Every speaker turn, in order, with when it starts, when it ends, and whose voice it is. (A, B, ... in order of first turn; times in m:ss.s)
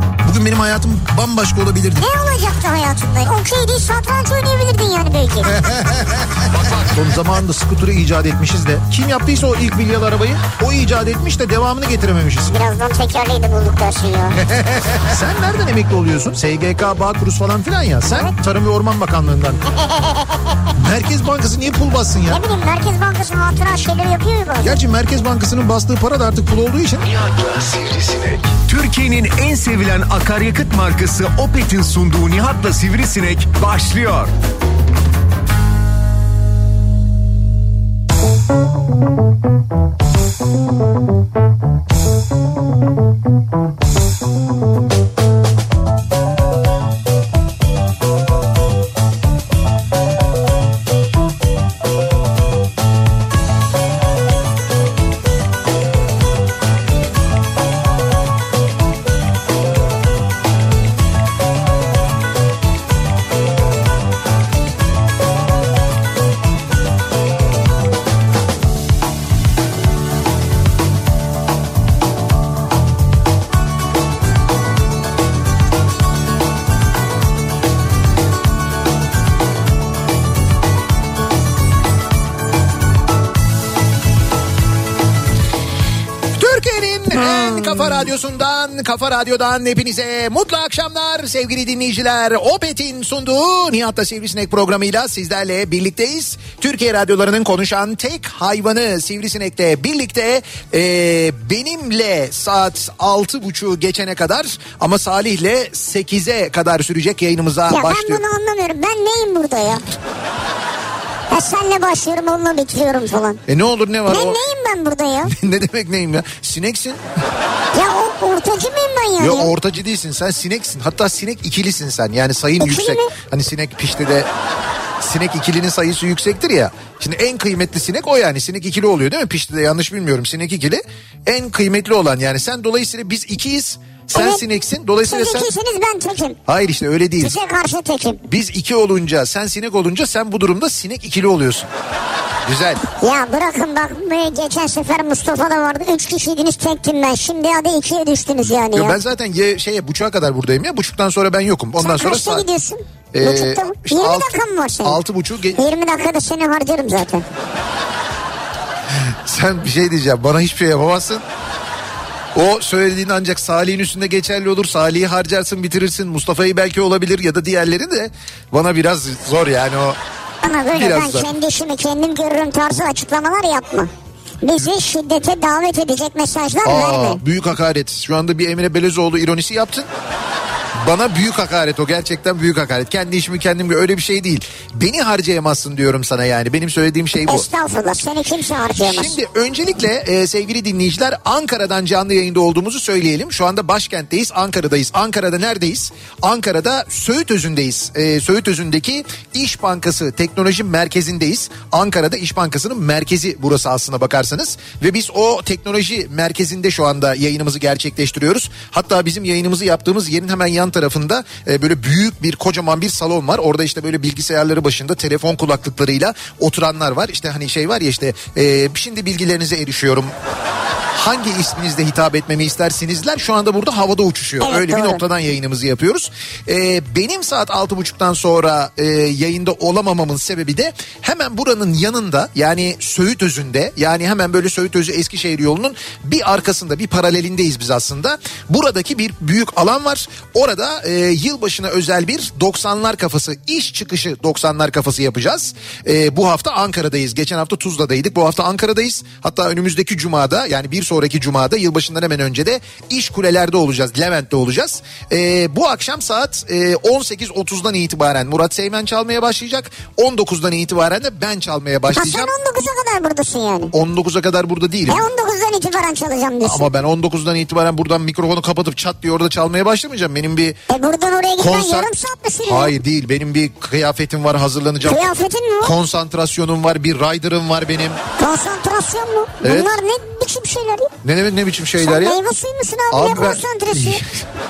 0:00.2-0:02.1 A
0:02.0-0:05.7 B
0:05.6-0:12.5 A
0:12.5-0:14.4 B
0:14.4-0:19.6 A
0:20.7-0:22.4 A
0:22.3-0:24.8 B
0:24.6-0:27.1 A
0:27.1-0:34.3 C
1:26.4-1:48.2 A
1:47.7-1:49.8 B
1:51.3-1:53.4 B
1:53.5-1:54.4 A
1:54.1-1:55.3 B
1:55.2-1:57.0 A
1:57.7-1:59.5 B
1:59.2-2:04.3 A
2:02.6-2:03.1 B
2:05.0-2:15.5 A
2:14.1-2:14.4 B
2:15.0-2:16.4 B
2:16.5-2:17.4 A
2:17.2-2:18.3 B
2:18.3-2:21.7 A
2:22.4-2:22.8 A
2:23.0-2:29.0 B
2:28.7-2:32.4 A
2:31.8-2:35.0 B
2:33.1-2:35.6 A
2:35.6-2:37.2 B
2:39.0-2:41.2 A
2:42.3-2:50.0 A
2:50.4-2:53.9 B
2:50.7-2:51.3 A
2:54.4-2:57.2 B
2:56.6-2:59.9 A
3:00.7-3:07.5 A
3:07.3-3:09.2 B
3:08.8-3:40.1 A
3:40.9-4:22.3 A
3:44.4-3:45.0 B
4:21.9-4:23.7 B
4:23.7-4:25.0 A
4:24.9-4:26.7 B
4:26.4-4:30.6 A
4:30.7-4:32.7 B
4:31.4-4:31.9 A
4:32.5-4:35.1 A
4:34.8-4:35.7 B
4:35.6-4:38.0 A
4:38.2-4:40.9 B
4:39.4-4:39.8 A
4:41.0-4:42.2 A
4:41.8-4:44.0 B
4:42.9-4:44.0 A